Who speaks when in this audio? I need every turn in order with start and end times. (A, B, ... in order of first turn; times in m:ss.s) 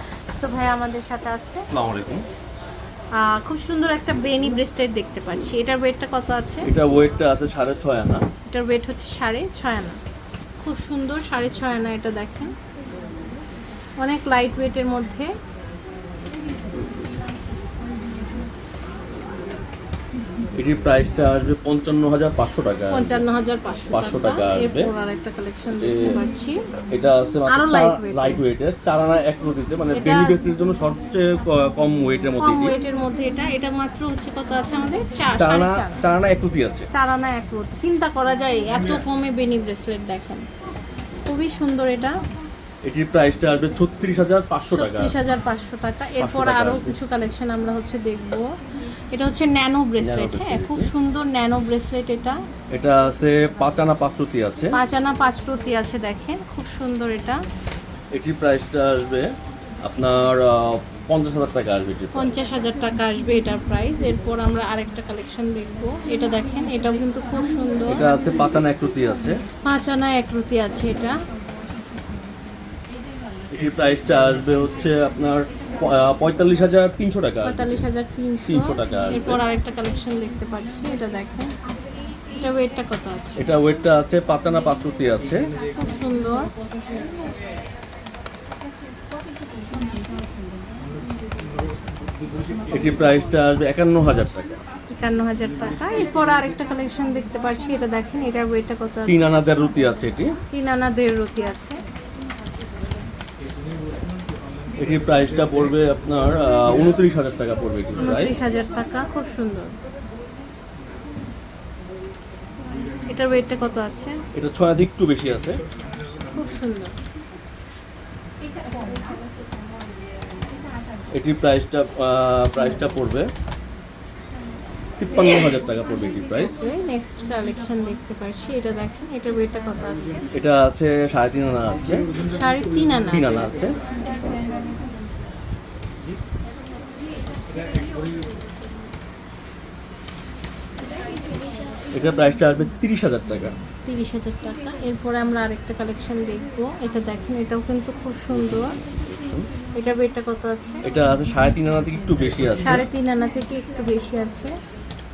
0:00.4-0:01.6 A
0:01.7-0:02.2 B
0:03.2-0:06.7 A
0:06.6-0:08.2 B
0:08.5-0:10.0 A
0:10.6-0:12.5 A
0:14.0-0:15.3 A
0:20.6-0:23.2 B
0:22.9-0:26.5 A
0:23.9-0:24.9 B
0:25.8-0:26.2 B
0:26.9-0:32.7 B
0:27.5-0:28.4 A
0:29.9-0:30.3 A
0:32.4-0:36.0 A
0:35.4-0:36.9 B
0:36.9-0:40.4 A
0:41.3-0:42.1 A
0:42.8-0:45.1 B
0:44.7-0:48.4 A
0:46.2-0:46.9 B
0:49.1-0:52.4 A
0:50.0-0:50.9 B
0:52.7-0:54.7 B
0:54.7-0:57.4 A
0:58.1-0:59.3 B
0:59.8-1:02.3 B
1:02.1-1:08.1 A
1:07.9-1:09.3 B
1:09.6-1:11.2 A
1:13.5-1:17.8 B
1:17.4-1:21.5 A
1:18.5-1:19.4 B
1:22.4-1:23.4 A
1:23.4-1:25.4 B
1:25.8-1:26.5 A
1:32.7-1:34.6 B
1:34.9-1:39.3 A
1:39.0-1:40.3 B
1:40.5-1:41.8 A
1:44.8-1:48.4 B
1:48.0-1:49.7 A
1:53.1-1:54.2 A
1:54.3-1:55.6 B
1:56.3-1:56.9 A
2:01.1-2:03.3 B
2:05.0-2:06.6 B
2:06.5-2:10.2 A
2:10.3-2:12.1 B
2:12.3-2:13.7 A
2:13.1-2:13.8 B
2:21.9-2:23.5 B
2:23.8-2:28.8 A
2:28.3-2:29.5 B
2:29.8-2:30.8 A
2:30.8-2:32.8 B
2:32.6-2:34.5 A